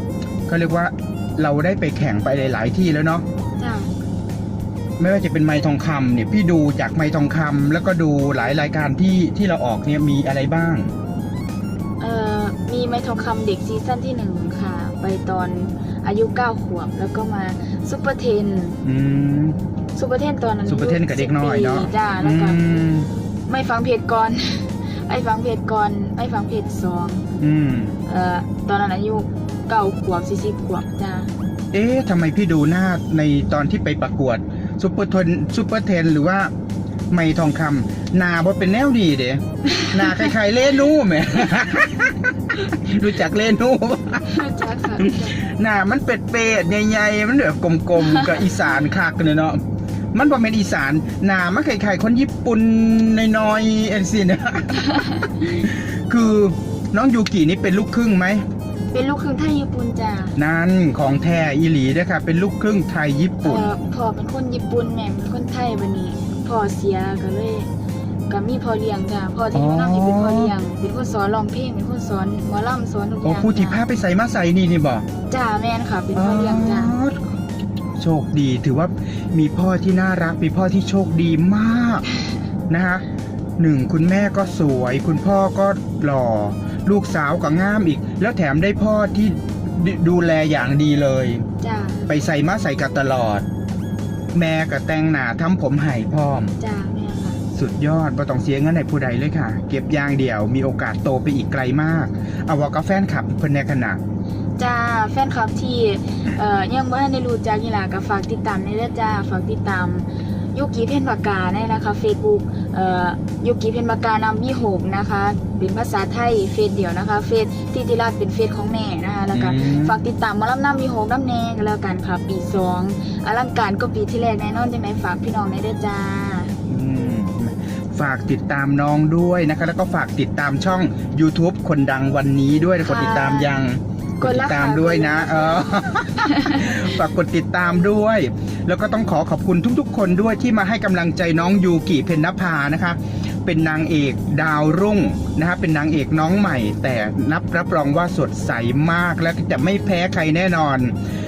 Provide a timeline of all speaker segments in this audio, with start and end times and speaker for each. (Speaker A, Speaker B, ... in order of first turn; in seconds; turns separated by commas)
Speaker A: 0.5-3.2, Speaker B: 3.6-3.9, Speaker A: 5.0-10.9, Speaker B: 12.0-18.8, Speaker A: 18.8-19.6, Speaker B: 19.9-22.8, Speaker A: 20.7-23.1, Speaker B: 23.5-27.2, Speaker A: 27.4-28.0, Speaker B: 28.1-31.3, Speaker A: 31.7-36.5, Speaker A: 37.1-49.6, Speaker B: 44.2-45.4, Speaker A: 50.1-58.4, Speaker B: 58.9-60.4, Speaker A: 60.4-63.6, Speaker B: 63.4-67.7, Speaker B: 68.3-73.8, Speaker A: 69.5-70.5, Speaker A: 73.2-75.0, Speaker B: 75.3-76.9, Speaker A: 76.1-77.2, Speaker A: 78.0-82.0, Speaker A: 82.7-83.0, Speaker A: 83.6-91.5, Speaker B: 91.6-92.0, Speaker A: 92.1-93.4, Speaker A: 94.3-96.5, Speaker B: 96.6-97.4, Speaker A: 97.5-104.0, Speaker B: 104.6-126.5, Speaker A: 119.3-120.0, Speaker A: 126.7-150.9, Speaker B: 132.8-133.5, Speaker B: 134.2-136.8